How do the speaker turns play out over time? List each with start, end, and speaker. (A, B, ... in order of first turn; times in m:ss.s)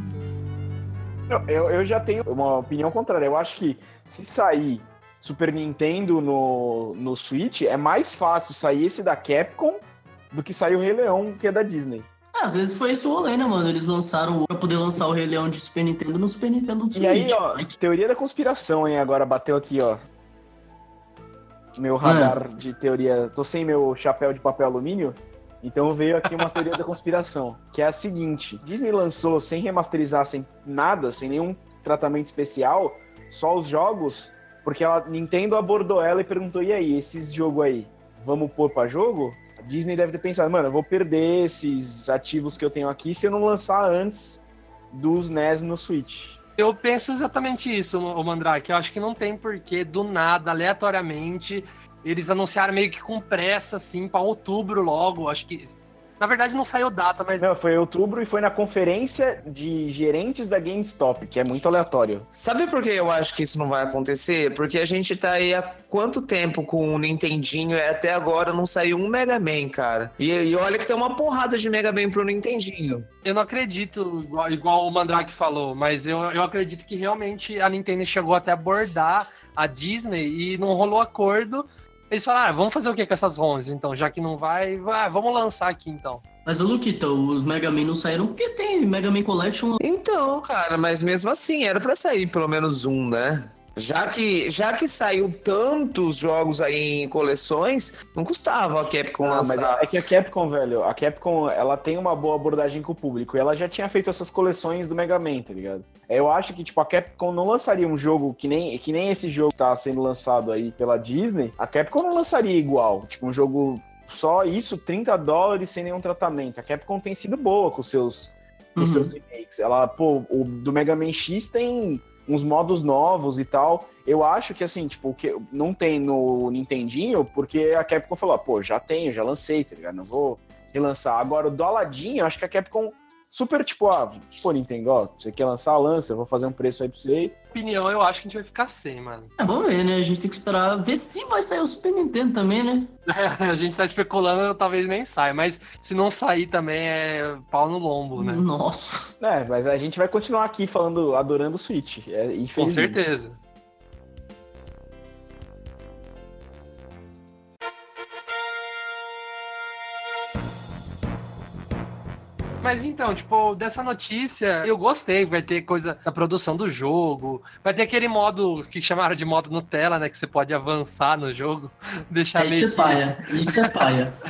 0:01.3-0:12.1 A
0:12.3-0:17.7 B
0:16.9-0:20.0 A
0:21.8-0:44.4 A
0:22.0-0:22.4 B
0:44.9-0:46.4 A
0:46.6-0:57.5 C
0:57.4-1:02.2 A
1:02.3-1:13.1 D
1:13.2-1:26.2 C
1:26.4-1:29.8 B
1:29.8-1:40.0 D
1:39.2-2:17.3 A
1:58.8-1:59.1 B
2:17.5-2:19.3 C
2:19.4-2:22.9 B
2:23.1-2:28.4 C
2:28.2-2:29.1 B
2:29.2-2:33.0 A
2:32.6-2:33.4 C
2:42.6-2:53.7 C
2:52.4-2:54.1 B